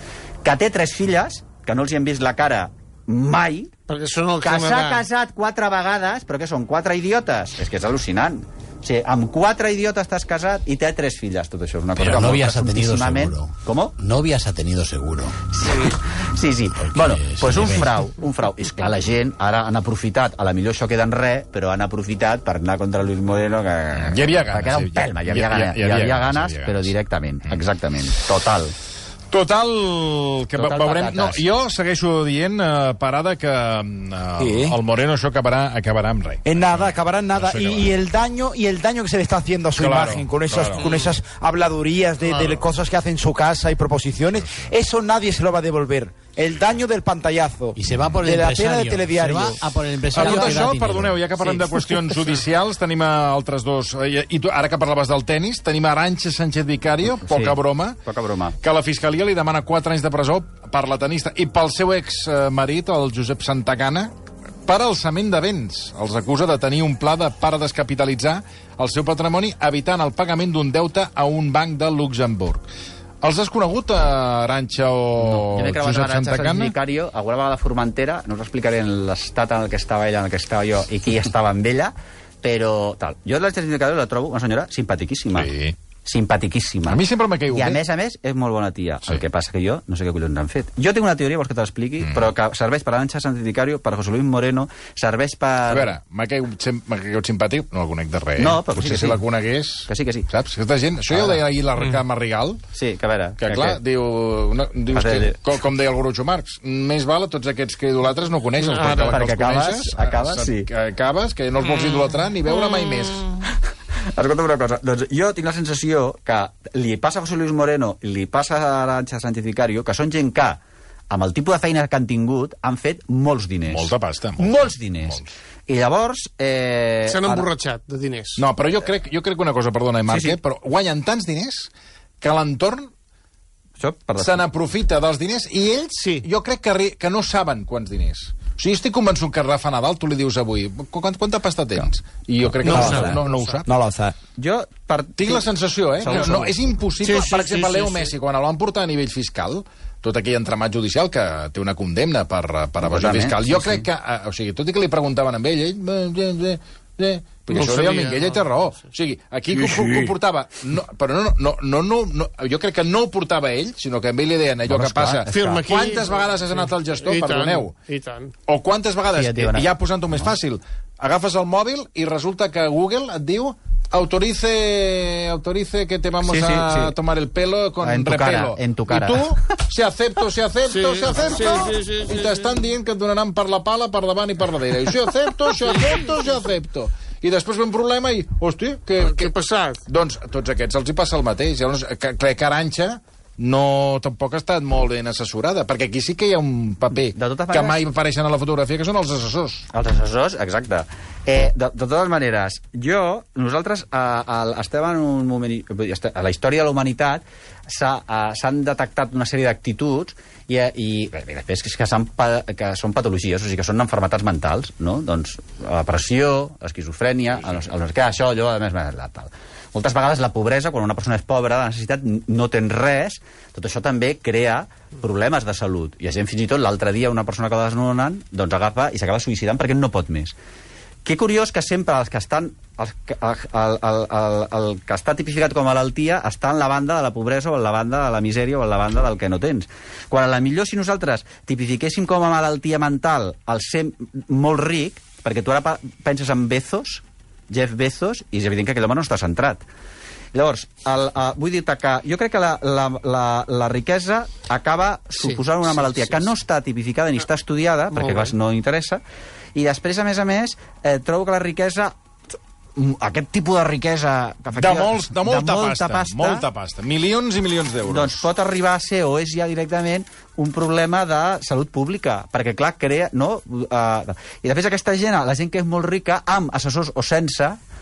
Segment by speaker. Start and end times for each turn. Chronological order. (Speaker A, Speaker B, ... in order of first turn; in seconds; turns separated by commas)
Speaker A: 0.4-3.7, Speaker B: 3.9-5.0, Speaker A: 4.4-13.9, Speaker C: 11.9-15.4, Speaker A: 15.5-28.7, Speaker C: 16.7-18.1, Speaker D: 23.9-26.9, Speaker D: 29.3-38.0, Speaker A: 30.6-31.4, Speaker E: 34.4-34.8, Speaker E: 36.5-49.6, Speaker D: 39.8-40.8, Speaker B: 40.8-41.1, Speaker B: 42.2-42.6, Speaker C: 47.8-52.0, Speaker D: 50.1-58.0, Speaker A: 50.2-50.7, Speaker A: 57.1-58.6, Speaker D: 58.6-64.1, Speaker D: 64.7-72.6, Speaker D: 73.2-76.8, Speaker A: 75.2-85.5, Speaker D: 85.3-85.8, Speaker A: 86.0-95.9, Speaker D: 86.9-87.8, Speaker D: 92.0-92.3, Speaker D: 95.7-102.6, Speaker A: 98.4-99.2, Speaker A: 99.9-100.3, Speaker A: 101.1-101.4, Speaker A: 102.8-103.8, Speaker D: 103.4-113.3, Speaker A: 104.9-105.4, Speaker B: 108.6-109.2, Speaker A: 109.1-110.7, Speaker B: 111.7-113.3, Speaker A: 114.2-127.5, Speaker D: 123.7-125.3, Speaker B: 127.1-128.4, Speaker D: 128.4-131.7, Speaker A: 130.1-130.4, Speaker D: 132.2-132.9, Speaker A: 133.8-134.4, Speaker D: 134.2-143.7, Speaker B: 136.0-136.3, Speaker B: 142.6-143.0, Speaker A: 142.7-143.3, Speaker E: 142.7-144.2, Speaker A: 144.4-145.5, Speaker D: 145.2-167.7, Speaker A: 146.0-146.6, Speaker B: 146.1-146.4, Speaker B: 147.0-148.1, Speaker A: 152.8-153.9, Speaker B: 157.5-158.4, Speaker B: 159.5-160.1, Speaker A: 164.7-165.6, Speaker B: 165.3-168.3, Speaker D: 168.5-189.3, Speaker A: 169.1-170.3, Speaker A: 176.2-176.9, Speaker A: 177.8-179.4, Speaker B: 180.7-182.5, Speaker B: 185.5-186.0, Speaker B: 189.0-189.8, Speaker D: 189.9-199.7, Speaker A: 196.9-197.8, Speaker A: 199.7-230.3, Speaker A: 231.1-249.7, Speaker A: 250.3-259.0, Speaker B: 255.2-256.3, Speaker B: 257.9-258.3, Speaker A: 259.6-261.9, Speaker A: 262.8-266.4, Speaker D: 264.6-268.2, Speaker A: 267.9-277.6